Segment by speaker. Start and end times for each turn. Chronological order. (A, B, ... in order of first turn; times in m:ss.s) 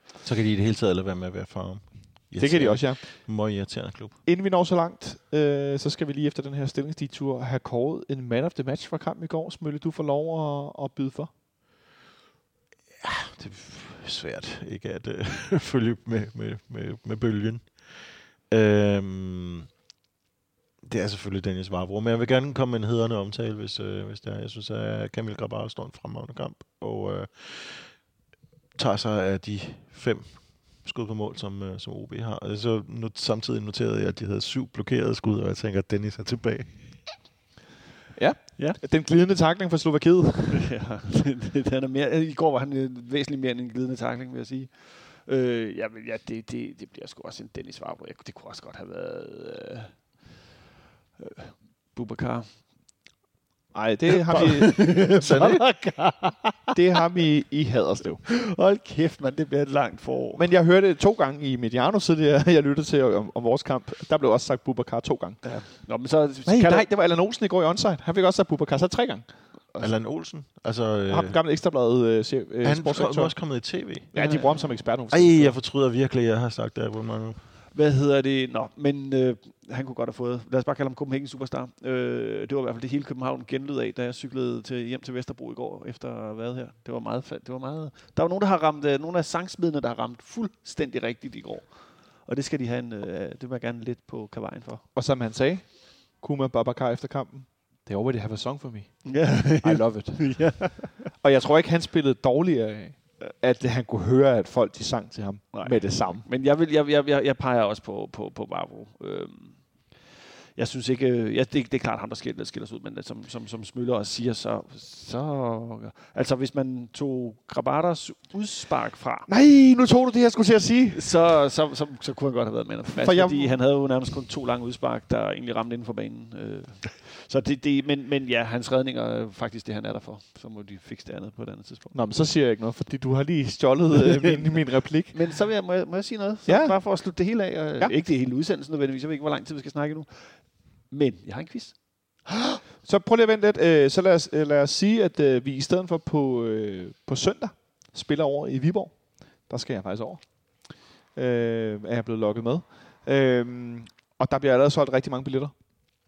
0:00.2-0:04.2 A
0:02.4-0:03.7 B
0:04.2-0:11.3 B
0:13.0-0:19.7 A
0:20.8-0:28.1 A
0:28.8-0:37.1 A
0:38.2-0:40.7 B
0:40.5-0:50.2 C
0:51.2-0:53.0 C
0:53.7-0:55.6 B
0:54.3-0:56.8 C
0:55.2-0:55.6 A
0:56.7-0:58.3 B
0:58.2-1:00.4 C
1:00.4-1:05.6 B
1:05.4-1:06.9 C
1:06.5-1:09.4 B
1:09.8-1:11.4 A
1:11.1-1:15.6 B
1:12.6-1:17.5 A
1:14.2-1:14.8 C
1:17.7-1:34.8 C
1:35.0-1:46.3 B
1:39.0-1:41.0 C
1:45.5-1:59.3 C
1:59.3-2:01.1 B
2:00.9-2:12.0 C
2:02.9-2:04.0 B
2:11.9-2:15.3 B
2:14.2-2:22.2 C
2:16.5-2:18.0 B
2:22.8-2:35.6 B